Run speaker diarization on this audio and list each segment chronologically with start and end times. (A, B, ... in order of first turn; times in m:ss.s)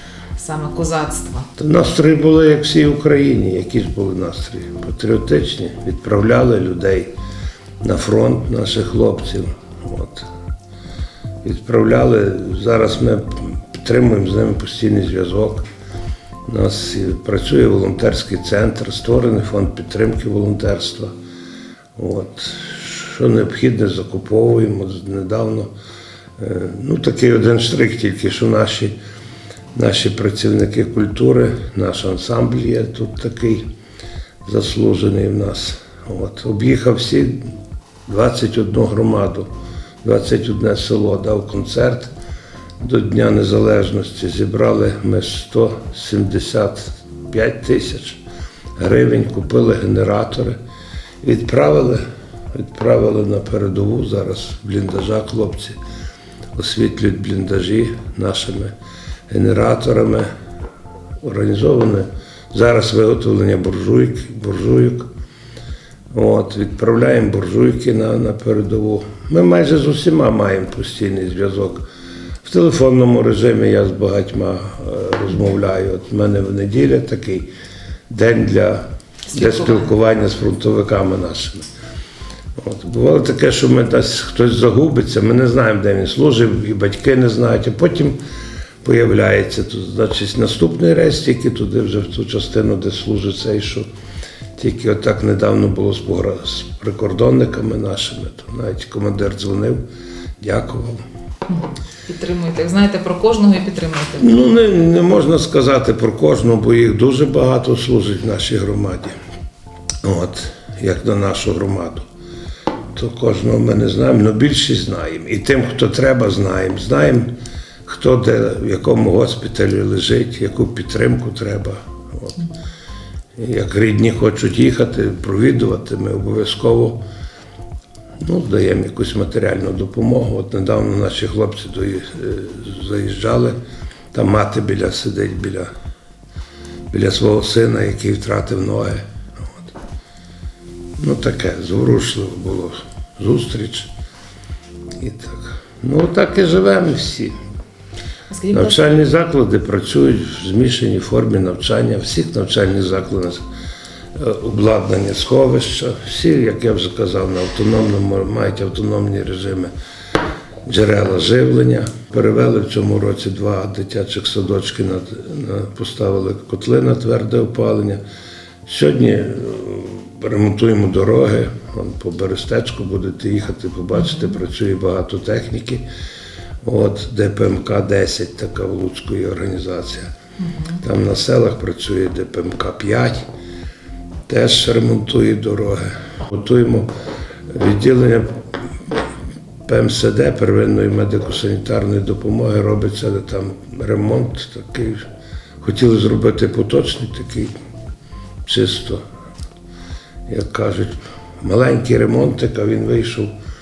0:00.4-0:01.5 A
0:01.6-0:07.1 B
0:07.8-0:10.3 B
0:11.4-0:15.6 B
0:16.5-0:21.1 B
0:22.0-0:25.7 B
0:26.4-0:29.0 B
0:29.7-0:33.7 B
0:34.4-0:37.5 B
0:38.1-0:39.5 B
0:40.0-0:42.1 B
0:42.8-0:48.2 B
0:48.8-0:50.6 B
0:51.2-0:55.8 B
0:56.5-0:58.7 B
0:59.3-1:00.3 B
1:01.2-1:05.1 B
1:06.1-1:11.8 B
1:12.4-1:17.5 B
1:18.1-1:21.6 B
1:19.3-1:19.9 A
1:22.6-1:28.2 B
1:28.8-1:33.9 B
1:34.6-1:39.8 B
1:40.4-1:41.0 B
1:41.5-1:44.3 A
1:44.2-1:49.2 B
1:50.0-1:52.0 B
1:52.9-1:57.3 B
1:57.8-2:02.4 B
2:03.4-2:07.0 B
2:08.2-2:13.6 B
2:14.1-2:15.7 B
2:16.9-2:19.7 B
2:21.0-2:23.9 B
2:25.0-2:27.4 B
2:28.3-2:28.8 A
2:28.5-2:33.4 B
2:34.1-2:39.7 B
2:40.6-2:48.0 B
2:48.6-2:55.8 B
2:53.9-2:54.3 A
2:56.6-3:00.1 B
3:00.4-3:00.8 A
3:00.8-3:03.2 B
3:04.3-3:06.9 B
3:07.5-3:08.9 B
3:09.6-3:15.0 B
3:15.6-3:17.5 B
3:18.4-3:19.0 B
3:20.3-3:23.3 B